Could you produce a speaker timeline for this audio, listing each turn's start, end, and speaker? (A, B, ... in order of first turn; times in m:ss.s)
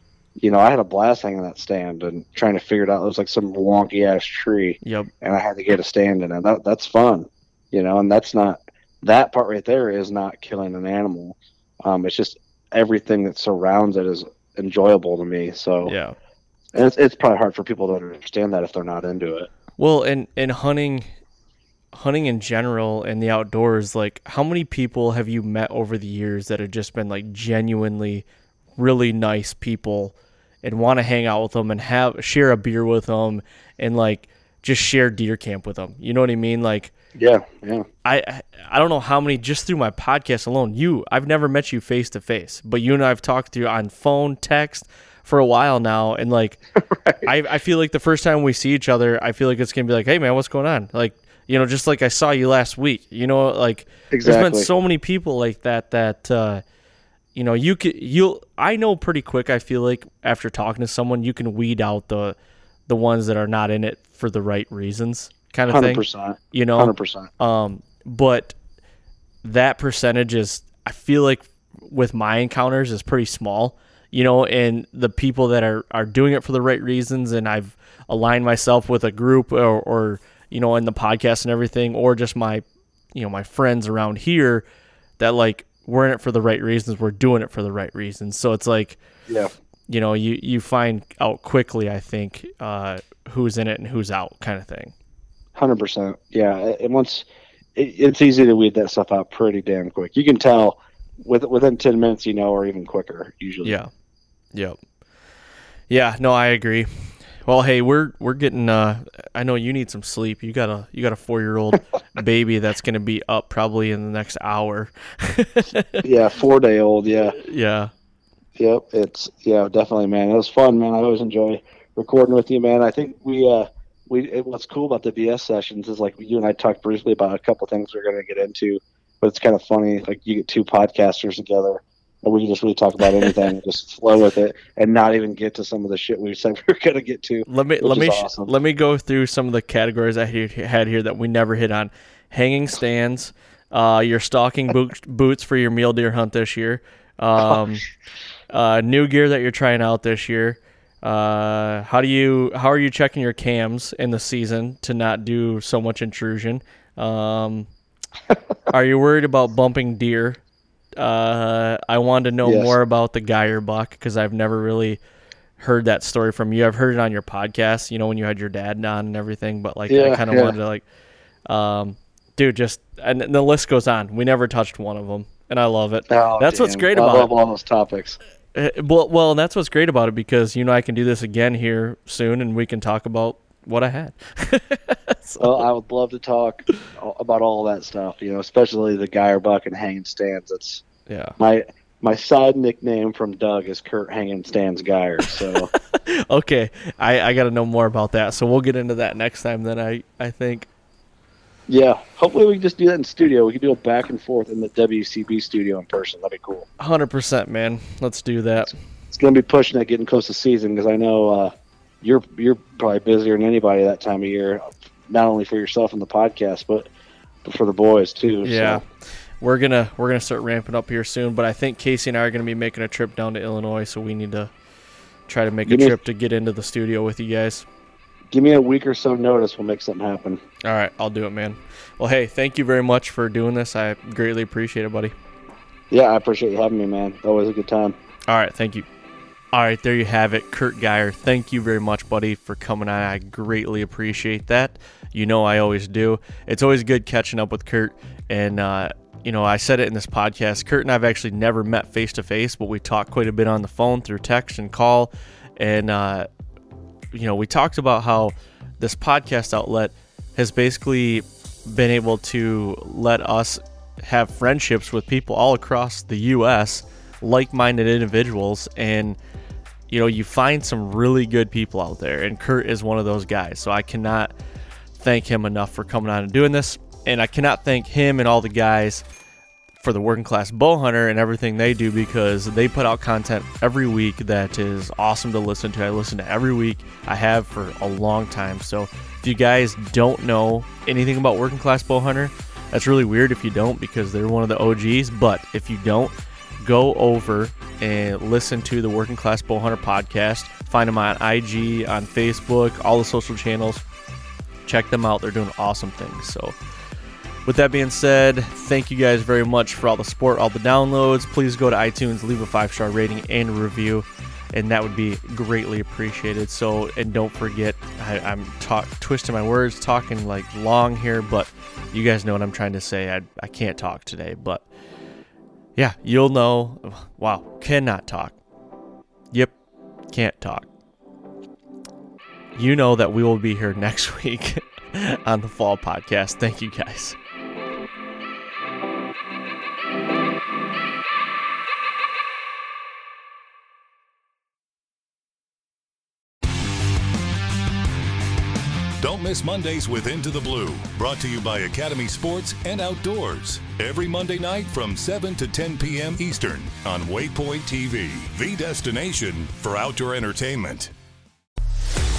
0:00.4-0:15.9 A
0:04.8-0:05.1 B
0:15.8-0:16.2 B
0:16.7-0:19.5 A
0:19.8-0:21.1 B
0:21.9-0:28.2 B
0:28.8-0:36.9 B
0:37.2-0:37.8 A
0:38.0-0:46.6 B
0:46.8-0:47.3 A
0:47.2-0:56.6 B
0:54.1-0:54.7 A
0:57.3-1:02.4 B
1:02.9-1:08.5 B
1:05.7-1:07.3 A
1:09.4-1:24.6 B
1:25.2-1:29.0 B
1:29.9-1:34.9 B
1:35.6-1:37.2 A
1:37.8-1:43.8 A
1:43.6-1:43.9 B
1:45.9-1:56.0 B
1:56.0-1:57.4 A
1:57.4-1:57.9 B
1:58.6-2:18.5 A
2:13.0-2:13.3 B
2:17.5-2:27.8 B
2:28.5-2:37.7 B
2:38.7-2:40.4 B
2:41.0-2:45.0 B
2:42.4-2:42.7 A
2:45.6-2:50.8 B
2:49.9-2:50.6 A
2:51.5-2:57.3 B
2:56.1-2:58.2 A
2:58.5-3:05.6 B
3:05.4-3:10.8 A
3:11.1-3:11.4 B
3:11.4-3:15.7 A
3:15.6-3:20.7 B
3:21.7-3:26.7 A
3:26.8-3:28.7 B
3:29.1-3:36.9 A
3:37.4-3:38.8 A
3:38.4-3:38.8 B
3:39.4-3:44.5 B
3:45.3-3:47.6 B
3:45.7-3:46.0 A
3:48.3-3:50.4 A
3:50.6-3:55.1 B
3:55.9-3:58.0 A
3:58.3-3:58.8 B
3:59.5-4:16.3 B
4:17.1-4:29.2 B
4:29.9-4:34.3 B
4:35.0-4:39.0 B
4:39.8-5:03.8 B
5:04.6-5:06.5 B
5:07.4-5:24.6 B
5:25.8-5:28.4 B
5:30.1-5:30.7 B
5:32.5-5:37.2 B
5:49.0-6:00.9 C